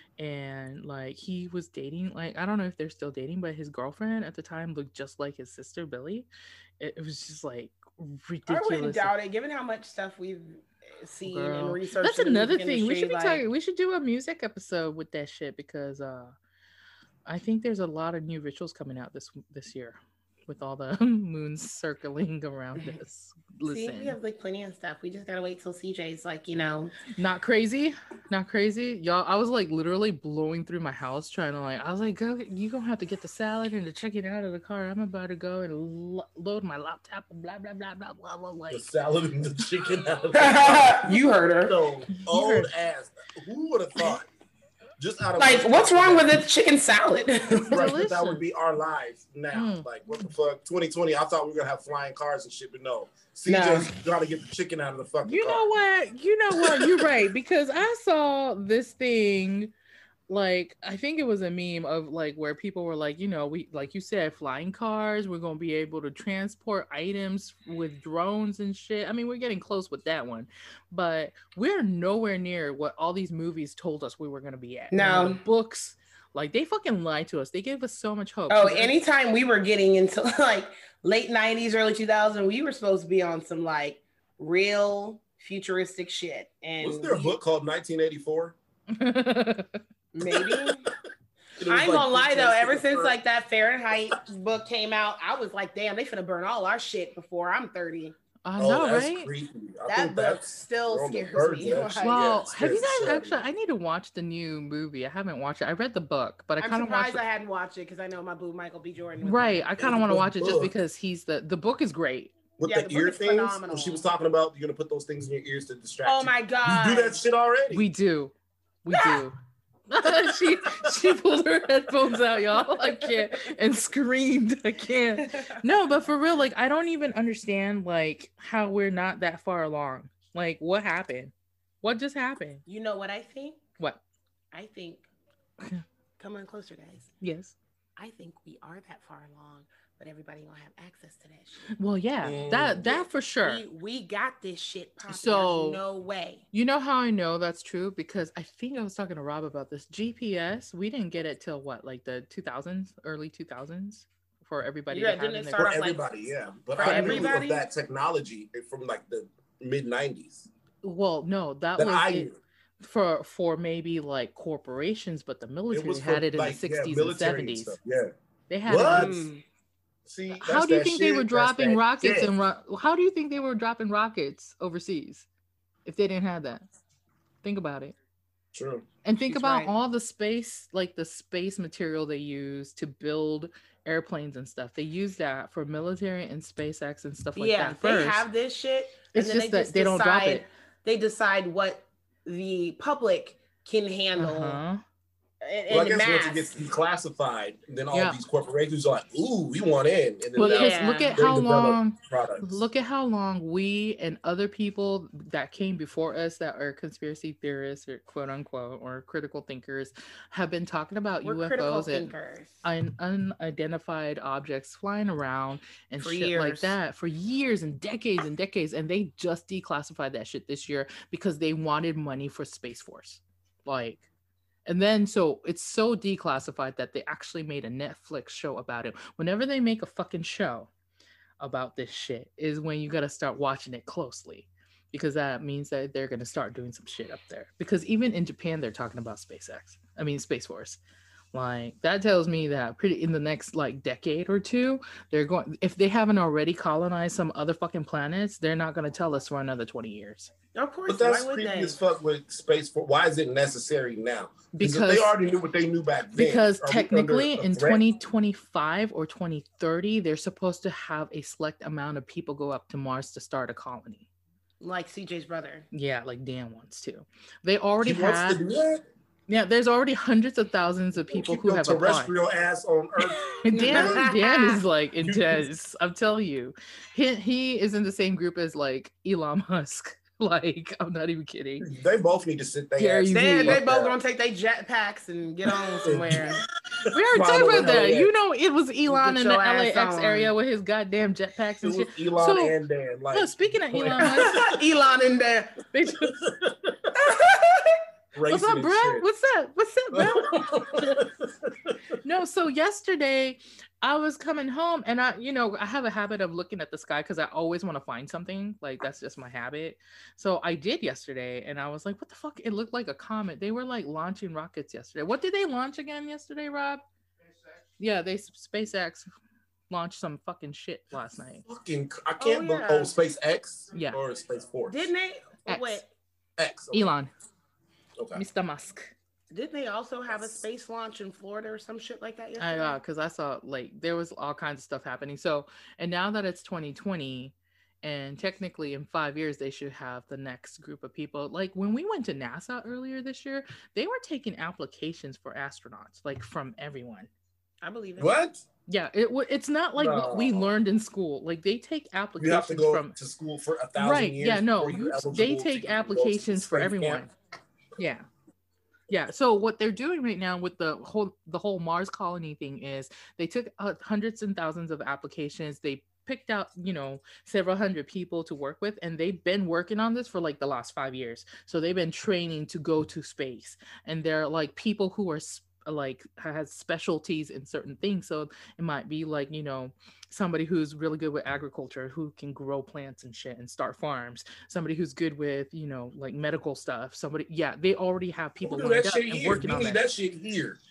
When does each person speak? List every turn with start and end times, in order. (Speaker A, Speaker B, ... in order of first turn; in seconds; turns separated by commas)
Speaker A: 0.2-6.3, Speaker A: 6.8-9.1, Speaker B: 8.5-13.4, Speaker A: 11.2-16.3, Speaker A: 17.2-24.1, Speaker B: 23.6-26.9, Speaker A: 27.1-38.9, Speaker C: 38.7-44.3, Speaker B: 40.3-41.8, Speaker A: 42.1-42.7, Speaker C: 45.0-46.4, Speaker B: 45.4-47.8, Speaker A: 47.7-48.4, Speaker C: 47.7-55.7, Speaker A: 49.5-49.9, Speaker B: 53.5-53.9, Speaker A: 55.2-59.7, Speaker C: 56.6-57.0, Speaker A: 60.3-78.9, Speaker B: 74.9-75.4, Speaker B: 78.5-87.3, Speaker C: 86.8-88.5, Speaker A: 88.9-89.8, Speaker B: 90.1-90.9, Speaker C: 90.2-90.7, Speaker C: 91.6-93.2, Speaker B: 91.7-98.2, Speaker A: 98.4-99.3, Speaker C: 98.6-103.4, Speaker B: 99.9-102.3, Speaker A: 102.0-107.2, Speaker B: 106.6-109.8, Speaker A: 109.2-112.3, Speaker C: 109.8-110.7, Speaker C: 112.6-117.8, Speaker B: 112.6-114.0, Speaker B: 116.0-117.2, Speaker A: 117.7-119.3, Speaker B: 118.9-119.2, Speaker A: 119.9-132.6, Speaker B: 125.2-125.5, Speaker B: 132.7-133.6, Speaker B: 134.5-135.1, Speaker B: 136.2-137.1, Speaker A: 137.2-137.5, Speaker B: 138.0-141.7, Speaker A: 141.8-143.6, Speaker C: 142.2-143.1, Speaker B: 143.4-146.4, Speaker A: 145.1-145.8, Speaker A: 146.5-155.7, Speaker B: 154.9-156.1, Speaker C: 155.6-160.5, Speaker B: 156.7-157.7, Speaker A: 156.8-157.3, Speaker A: 160.8-167.7, Speaker C: 161.8-162.4, Speaker C: 165.7-168.1, Speaker A: 168.5-169.2, Speaker C: 168.7-169.3, Speaker B: 168.8-169.4, Speaker C: 170.1-172.3, Speaker A: 170.4-175.3, Speaker A: 175.8-176.7, Speaker A: 177.4-177.9, Speaker C: 178.5-178.8, Speaker A: 179.0-188.2, Speaker B: 179.2-179.7, Speaker B: 187.3-194.6, Speaker A: 189.1-190.4, Speaker A: 194.2-194.8, Speaker B: 195.4-196.6, Speaker C: 195.7-202.6, Speaker A: 197.9-198.2, Speaker A: 200.4-212.1, Speaker B: 200.4-201.2, Speaker B: 211.2-212.6, Speaker A: 212.6-224.1, Speaker B: 216.0-216.7, Speaker A: 224.7-230.7, Speaker A: 231.4-240.8, Speaker A: 241.3-250.3, Speaker B: 250.5-251.8, Speaker C: 250.9-257.8, Speaker A: 254.5-255.1, Speaker A: 256.1-264.1, Speaker B: 264.6-265.6, Speaker A: 265.7-268.4, Speaker C: 267.8-268.8, Speaker A: 269.3-272.1, Speaker C: 271.1-274.1, Speaker A: 273.2-281.6, Speaker B: 273.5-274.6, Speaker C: 275.0-275.5, Speaker C: 281.6-283.9, Speaker A: 282.8-283.6, Speaker B: 283.1-286.4, Speaker C: 285.8-288.1, Speaker A: 286.9-292.6, Speaker B: 288.9-290.3, Speaker C: 291.6-294.6, Speaker A: 293.1-294.4, Speaker B: 294.0-295.6, Speaker A: 295.7-296.2, Speaker C: 296.1-296.9, Speaker B: 296.9-297.8, Speaker C: 298.1-299.0, Speaker A: 298.3-301.0, Speaker C: 299.9-301.9, Speaker A: 302.0-316.8, Speaker A: 317.8-319.1, Speaker A: 319.7-321.4, Speaker C: 321.4-324.9, Speaker B: 322.2-322.9, Speaker A: 323.7-324.0, Speaker B: 324.7-325.9, Speaker A: 325.5-325.8, Speaker C: 326.4-326.9, Speaker A: 326.7-327.1, Speaker C: 328.0-328.2, Speaker A: 328.1-328.9, Speaker B: 329.3-332.8, Speaker A: 332.4-347.1, Speaker B: 347.6-348.2, Speaker C: 348.0-348.4, Speaker A: 348.7-352.9, Speaker C: 349.8-350.5, Speaker C: 352.2-357.1, Speaker A: 353.8-357.1, Speaker A: 357.8-358.1, Speaker A: 358.9-389.9, Speaker C: 388.4-390.6